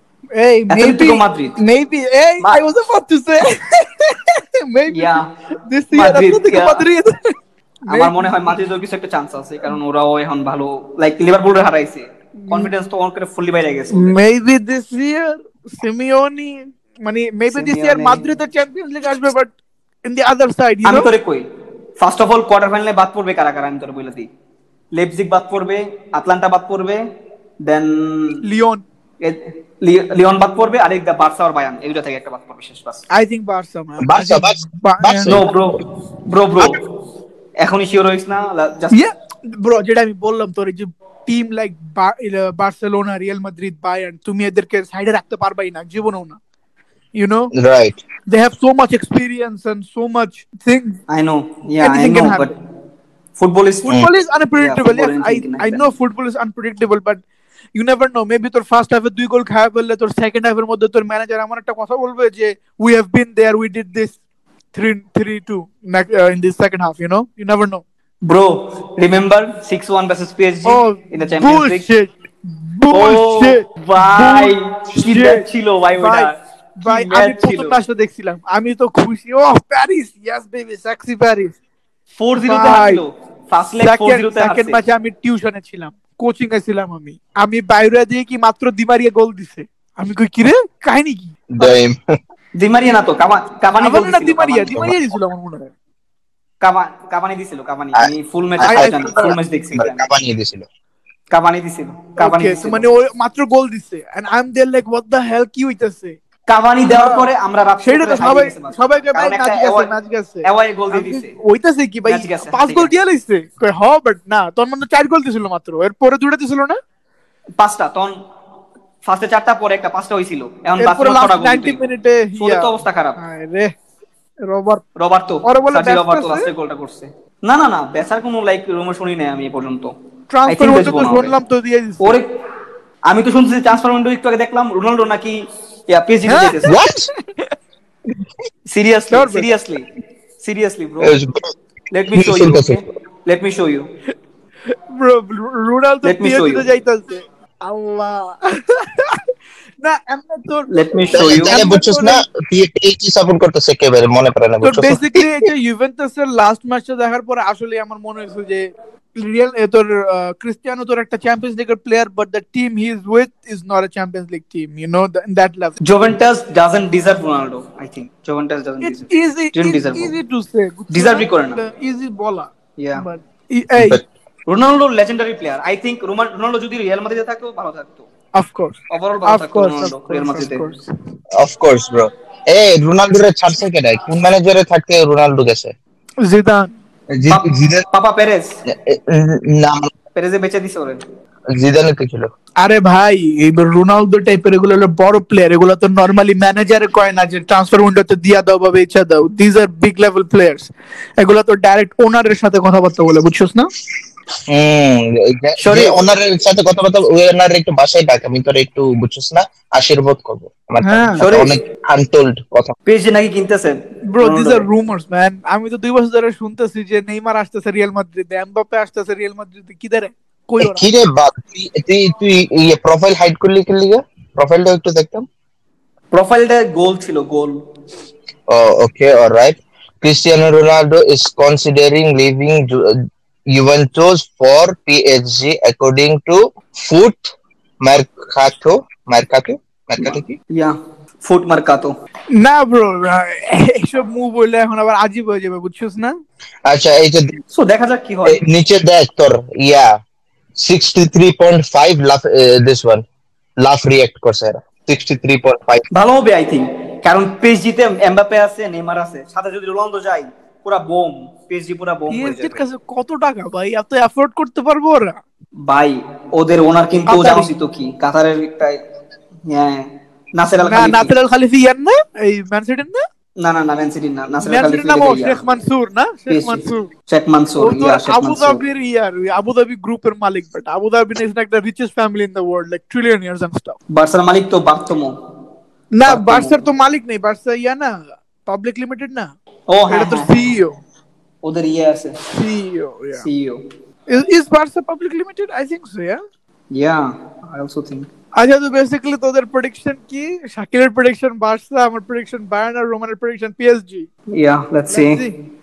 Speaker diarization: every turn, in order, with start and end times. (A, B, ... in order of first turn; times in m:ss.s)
0:00.4-0:07.3 A
0:00.7-0:01.6 B
0:02.4-0:02.6 B
0:04.9-0:05.3 B
0:05.9-0:06.8 B
0:07.9-0:08.3 A
0:07.9-0:14.2 B
0:12.4-0:12.7 A
0:13.9-0:21.1 A
0:17.5-0:18.3 B
0:20.8-0:21.4 B
0:22.0-0:24.3 B
0:24.9-0:27.1 B
0:27.6-0:28.4 B
0:28.4-0:28.8 A
0:29.2-0:33.1 B
0:33.1-0:35.5 A
0:34.0-0:35.5 C
0:35.3-0:36.8 B
0:37.6-0:39.0 B
0:38.9-0:46.4 A
0:47.2-0:47.5 A
0:47.5-0:48.0 C
0:48.3-0:51.0 A
0:51.1-0:52.5 B
0:51.8-0:52.5 A
0:53.4-0:54.0 B
0:53.9-0:57.2 A
0:54.6-0:55.8 B
0:57.7-1:04.1 A
1:04.7-1:07.8 A
1:08.2-1:11.8 B
1:10.6-1:15.4 A
1:12.9-1:17.8 B
1:16.0-1:21.6 A
1:22.2-1:24.8 B
1:22.4-1:23.0 A
1:23.8-1:31.7 A
1:31.5-1:32.2 C
1:32.6-1:34.8 B
1:33.8-1:35.7 A
1:36.6-1:40.0 B
1:38.0-1:40.6 C
1:38.6-1:39.4 A
1:41.3-1:42.9 B
1:42.2-1:46.2 A
1:46.5-1:49.9 B
1:46.9-1:47.3 A
1:47.8-1:56.8 A
1:50.4-1:51.3 B
1:52.0-1:52.9 B
1:57.6-1:58.2 B
1:59.0-2:01.8 B
2:00.8-2:03.7 A
2:02.4-2:03.2 B
2:04.5-2:04.8 A
2:05.0-2:09.9 B
2:05.4-2:06.5 A
2:10.3-2:12.2 A
2:10.5-2:11.3 B
2:12.0-2:12.3 B
2:13.1-2:16.8 B
2:16.2-2:17.5 A
2:16.6-2:17.1 C
2:18.7-2:19.9 B
2:19.1-2:19.5 A
2:20.4-2:21.2 B
2:21.0-2:21.5 C
2:21.9-2:23.9 B
2:22.1-2:22.8 C
2:24.9-2:29.2 A
2:26.0-2:26.6 B
2:29.8-2:32.2 A
2:30.7-2:31.6 B
2:31.1-2:35.2 C
2:34.6-2:45.8 A
2:45.8-2:50.1 B
2:48.8-2:54.0 A
2:50.9-2:51.6 B
2:52.8-2:53.0 B
2:53.8-2:54.0 C
2:54.4-2:58.1 B
2:58.3-3:00.8 A
2:58.9-3:00.7 B
3:01.3-3:05.7 C
3:06.2-3:06.7 A
3:07.1-3:07.8 C
3:07.3-3:08.5 B
3:08.7-3:09.9 C
3:10.1-3:11.0 B
3:11.5-3:12.3 C
3:12.6-3:23.7 A
3:24.5-3:32.7 C
3:25.6-3:26.0 B
3:30.8-3:31.2 A
3:31.2-3:31.5 B
3:32.8-3:34.7 B
3:34.1-3:40.9 A
3:40.6-3:45.3 C
3:46.1-3:47.6 B
3:48.5-4:00.4 C
4:00.0-4:01.9 B
4:02.3-4:06.2 A
4:06.6-4:07.4 C
4:07.5-4:08.4 B
4:08.2-4:10.0 C
4:10.6-4:13.0 C
4:13.6-4:15.8 C
4:15.9-4:22.6 B
4:22.1-4:25.2 A
4:25.6-4:28.8 B
4:27.1-4:27.5 A
4:29.4-4:31.1 B
4:30.6-4:33.0 A
4:33.4-4:35.4 B
4:34.4-4:36.9 A
4:36.3-4:38.6 B
4:37.6-4:43.8 A
4:43.9-4:45.2 B
4:45.9-4:49.3 A
4:46.0-4:46.6 B
4:49.7-4:50.6 B
4:49.9-4:50.8 A
4:51.4-4:52.2 B
4:52.3-4:53.2 A
4:53.2-4:53.6 B
4:54.1-4:56.2 A
4:56.7-4:58.1 B
4:58.4-5:04.1 A
5:04.3-5:05.2 B
5:04.9-5:05.3 A